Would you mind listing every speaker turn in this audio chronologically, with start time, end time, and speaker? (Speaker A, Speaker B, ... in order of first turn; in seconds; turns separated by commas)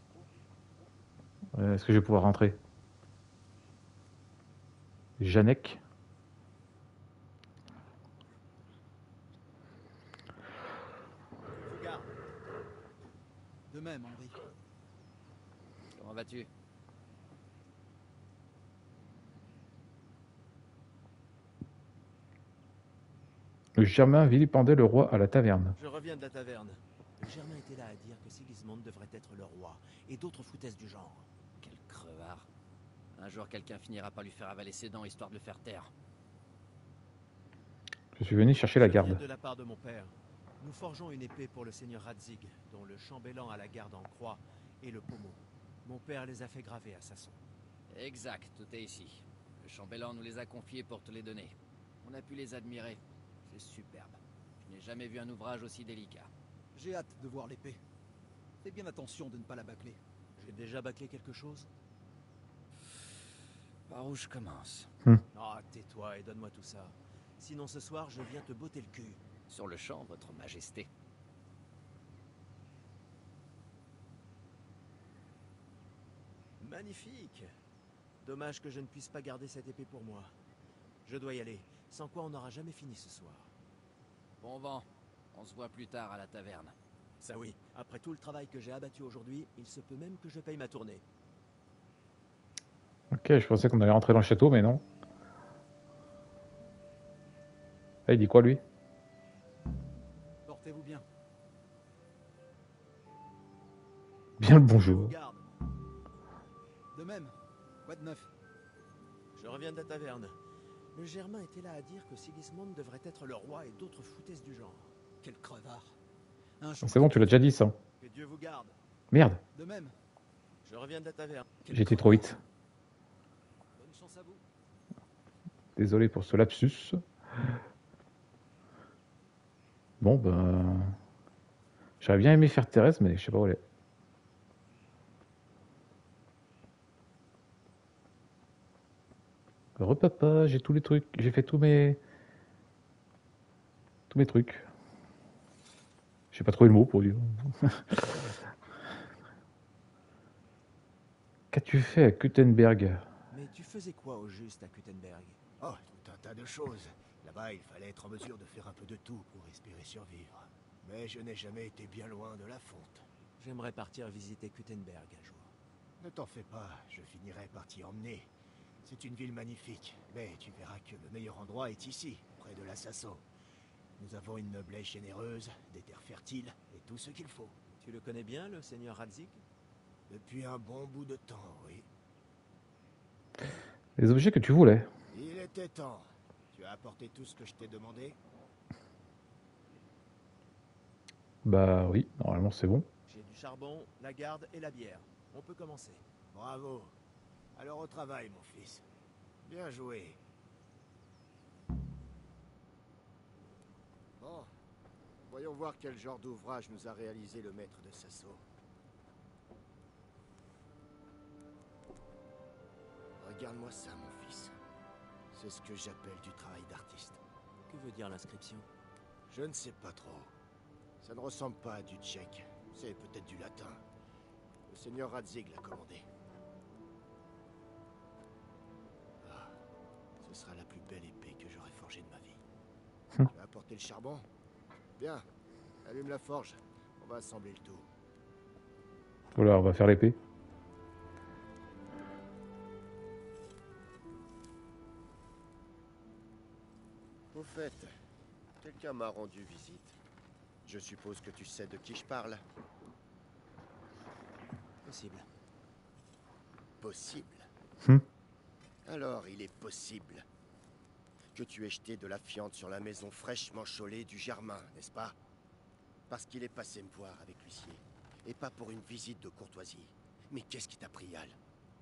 Speaker A: 1.5-2.6, Speaker A: 5.2-5.8, Speaker B: 11.5-12.0, Speaker C: 13.7-14.4, Speaker D: 15.9-16.5, Speaker A: 23.8-25.7, Speaker B: 25.8-31.3, Speaker D: 31.6-32.5, Speaker D: 33.1-35.9, Speaker A: 38.1-39.2, Speaker B: 38.8-47.4, Speaker D: 47.9-56.3, Speaker C: 56.7-57.8, Speaker C: 58.6-60.0, Speaker B: 60.4-61.7, Speaker D: 63.9-64.9, Speaker B: 65.3-69.2, Speaker D: 69.5-70.9, Speaker B: 76.6-77.5, Speaker B: 78.2-80.3, Speaker B: 81.0-83.5, Speaker D: 84.4-86.7, Speaker B: 87.2-91.0, Speaker A: 93.1-94.8, Speaker A: 98.0-98.6, Speaker C: 100.5-101.0, Speaker A: 104.4-105.2, Speaker B: 104.8-105.5, Speaker C: 106.9-108.3, Speaker B: 109.3-110.3, Speaker B: 110.9-114.9, Speaker C: 115.2-116.0, Speaker C: 116.6-117.3, Speaker A: 116.8-117.8, Speaker B: 118.0-118.7, Speaker A: 119.1-119.4, Speaker C: 119.5-119.9, Speaker B: 120.6-122.0, Speaker C: 121.7-122.0, Speaker A: 121.7-122.4, Speaker C: 123.7-124.4, Speaker A: 125.8-127.0, Speaker A: 130.0-130.9, Speaker A: 132.0-133.6, Speaker A: 139.8-142.0, Speaker A: 144.1-144.7, Speaker A: 146.3-148.4, Speaker A: 151.5-153.1, Speaker B: 153.3-155.4, Speaker E: 155.6-163.1, Speaker B: 163.4-165.5, Speaker E: 166.0-168.3, Speaker E: 168.8-173.2, Speaker E: 174.0-177.6, Speaker B: 177.8-179.4, Speaker E: 180.1-181.8, Speaker A: 184.0-184.9, Speaker E: 185.1-188.2, Speaker A: 191.4-192.9, Speaker B: 193.1-196.0, Speaker E: 196.3-196.9, Speaker E: 197.6-198.8, Speaker E: 199.4-200.2, Speaker E: 204.2-204.5, Speaker E: 205.3-208.4, Speaker E: 213.2-214.5, Speaker E: 215.3-217.2, Speaker B: 217.7-218.7, Speaker E: 219.3-220.3, Speaker E: 221.0-223.8, Speaker E: 224.7-226.1, Speaker E: 229.2-229.6, Speaker E: 230.2-232.4, Speaker E: 233.3-234.2, Speaker E: 235.0-235.2, Speaker E: 235.8-237.8, Speaker A: 239.3-240.2, Speaker F: 247.3-247.9, Speaker F: 248.6-249.9, Speaker F: 250.6-252.4, Speaker B: 254.8-255.3, Speaker F: 256.8-257.5, Speaker F: 258.9-260.2, Speaker F: 261.3-265.1, Speaker F: 266.1-271.4